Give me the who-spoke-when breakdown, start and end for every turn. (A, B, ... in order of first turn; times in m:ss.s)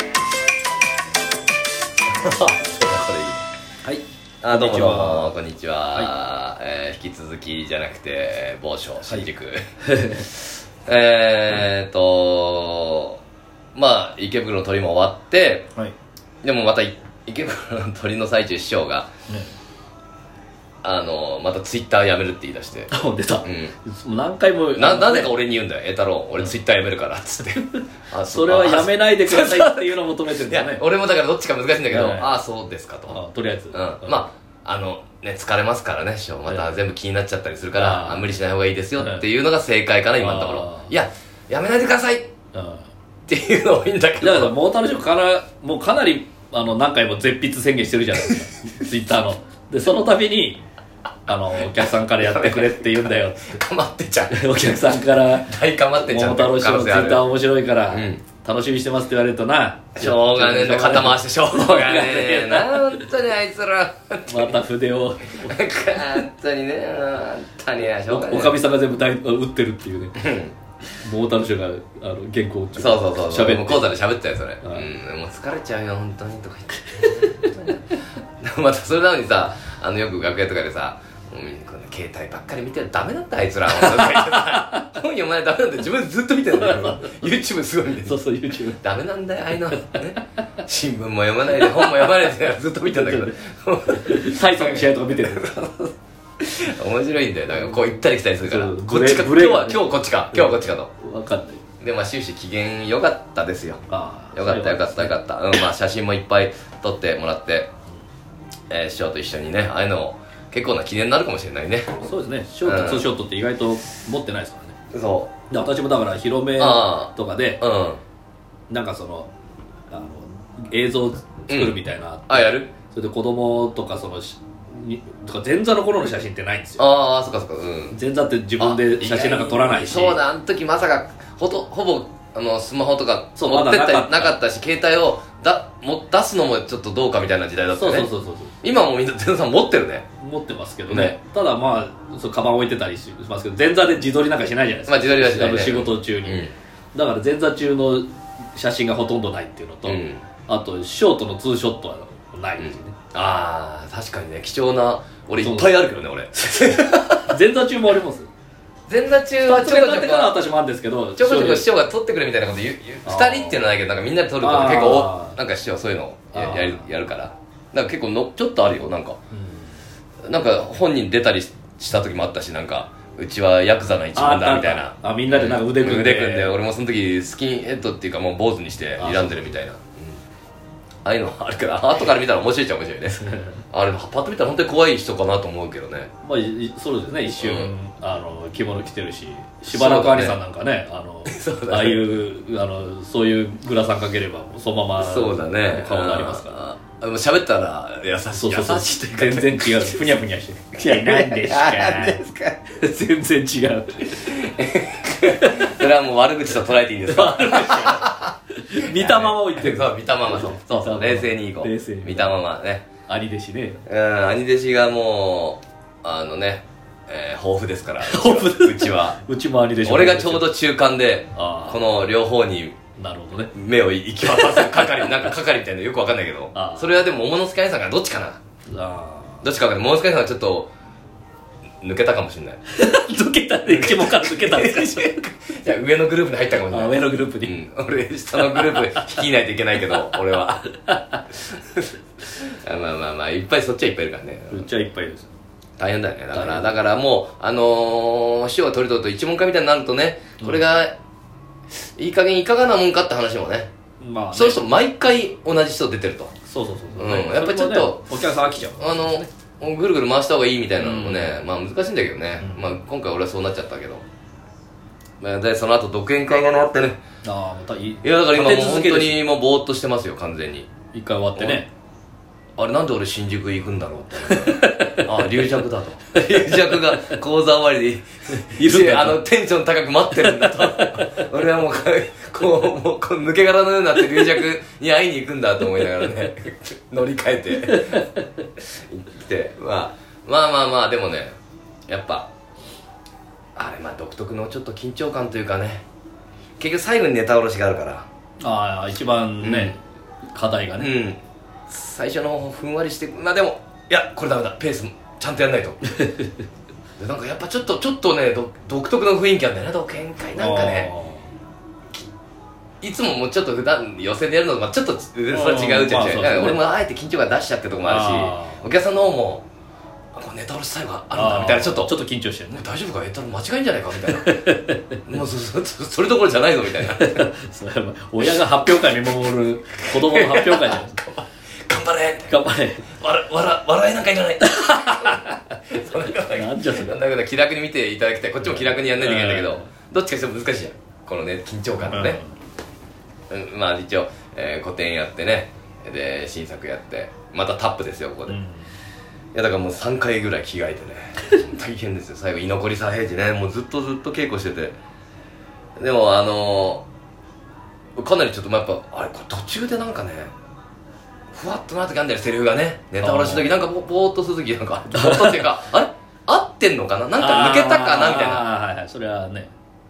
0:02.1-0:03.4 A
0:03.8-0:05.3 B
0:04.4-0:13.2 A
0:09.9-0:10.2 B
0:13.7-0:15.7 A
0:16.4-0:19.1 A
0:20.8-0:22.9 A
0:22.9-0:25.3 B
0:23.4-0:23.7 A
0:24.8-0:33.2 A
0:28.2-0:30.8 B
0:31.9-0:32.3 B
0:33.1-0:34.3 B
0:33.7-0:42.3 A
0:36.5-0:36.8 B
0:37.7-0:38.3 B
0:39.0-0:39.2 B
0:40.2-0:40.9 B
0:42.5-0:42.9 B
0:43.3-0:44.5 A
0:44.2-0:50.6 B
0:51.3-0:53.4 B
0:51.6-0:57.3 A
0:54.3-1:03.1 B
0:57.9-0:58.2 A
1:00.0-1:04.6 A
1:04.3-1:05.6 B
1:05.4-1:08.6 A
1:08.1-1:10.2 B
1:10.2-1:10.6 A
1:11.0-1:13.9 B
1:12.8-1:28.2 A
1:14.6-1:14.9 B
1:24.0-1:24.6 B
1:26.6-1:27.0 B
1:28.0-1:28.8 B
1:28.8-1:35.8 A
1:29.7-1:30.0 B
1:31.6-1:32.1 B
1:32.9-1:33.3 B
1:33.9-1:35.9 B
1:36.4-1:40.9 A
1:38.4-1:41.6 B
1:41.8-1:43.8 A
1:43.9-1:45.1 B
1:44.3-1:47.7 A
1:48.7-1:52.0 A
1:52.0-1:54.8 B
1:52.6-1:53.1 A
1:54.9-1:55.3 A
1:55.5-1:57.6 B
1:56.6-1:58.0 A
1:58.7-1:59.3 B
1:59.9-2:06.8 B
2:01.5-2:01.8 A
2:02.3-2:02.7 A
2:06.8-2:08.0 A
2:07.9-2:10.2 B
2:08.6-2:18.1 A
2:13.4-2:14.4 B
2:17.8-2:18.5 B
2:18.6-2:20.1 A
2:20.2-2:32.9 B
2:20.9-2:21.2 A
2:24.9-2:26.5 A
2:29.8-2:30.2 A
2:32.6-2:37.4 A
2:35.4-2:35.7 B
2:37.2-2:38.3 B
2:38.9-2:40.3 A
2:39.4-2:41.7 B
2:41.2-2:49.2 A
2:43.0-2:43.6 B
2:44.4-2:45.4 B
2:46.3-2:46.9 B
2:49.3-2:49.6 B
2:50.2-3:00.2 A
2:54.2-2:56.5 B
2:59.0-2:59.6 B
3:01.0-3:06.1 A
3:03.2-3:03.6 B
3:06.2-3:16.5 B
3:07.4-3:07.7 A
3:09.7-3:10.4 A
3:11.3-3:12.0 A
3:15.0-3:20.1 A
3:18.3-3:22.2 B
3:20.8-3:22.6 A
3:22.8-3:24.4 B
3:24.1-3:28.2 A
3:25.3-3:25.8 B
3:27.1-3:32.4 B
3:28.8-3:32.8 A
3:33.1-3:33.8 B
3:33.8-3:39.2 A
3:38.0-3:40.5 B
3:39.8-3:42.8 A
3:41.3-3:42.0 B
3:43.0-3:43.5 B
3:43.5-3:48.4 A
3:44.2-3:45.1 B
3:46.5-3:46.9 B
3:48.7-3:49.4 B
3:49.4-3:50.7 A
3:51.8-3:52.6 A
3:52.7-3:55.3 B
3:53.7-4:00.7 A
3:56.6-3:57.6 B
3:58.4-3:59.1 B
3:59.9-4:00.2 B
4:00.7-4:01.2 B
4:01.4-4:04.8 A
4:04.5-4:05.3 B
4:05.8-4:11.0 A
4:06.3-4:06.8 B
4:11.7-4:13.7 A
4:14.0-4:14.6 B
4:14.3-4:16.3 A
4:16.5-4:19.2 B
4:17.0-4:18.1 A
4:18.8-4:24.0 A
4:20.8-4:21.4 B
4:22.4-4:22.8 B
4:25.2-4:27.0 A
4:27.2-4:29.2 B
4:28.0-4:30.7 A
4:30.9-4:31.7 B
4:31.4-4:31.6 A
4:32.6-4:48.1 A
4:34.3-4:35.1 B
4:36.3-4:36.9 B
4:38.4-4:39.2 B
4:40.1-4:41.3 B
4:48.6-4:51.4 A
4:51.9-4:52.3 A
4:53.6-4:55.8 A
4:56.6-4:58.1 A
4:58.4-4:59.8 B
4:59.4-4:59.8 A
5:00.3-5:00.9 B
5:00.8-5:05.8 A
5:07.0-5:10.9 A
5:10.4-5:11.3 B
5:12.8-5:19.4 A
5:15.3-5:16.6 B
5:17.8-5:18.6 B
5:20.1-5:21.9 A
5:21.1-5:22.6 B
5:22.5-5:24.4 A
5:24.1-5:25.0 B
5:25.1-5:27.3 A
5:27.0-5:31.0 B
5:29.9-5:32.4 A
5:32.3-5:32.9 B
5:32.9-5:42.2 A
5:34.4-5:35.4 B
5:36.2-5:37.0 B
5:38.4-5:39.7 B
5:41.8-5:42.3 B
5:43.3-5:48.4 A
5:48.3-5:48.7 B
5:49.3-5:54.8 A
5:55.8-5:56.8 A
5:58.0-6:00.3 A
6:01.3-6:08.4 A
6:03.0-6:03.4 B
6:04.9-6:05.4 B
6:07.2-6:09.5 B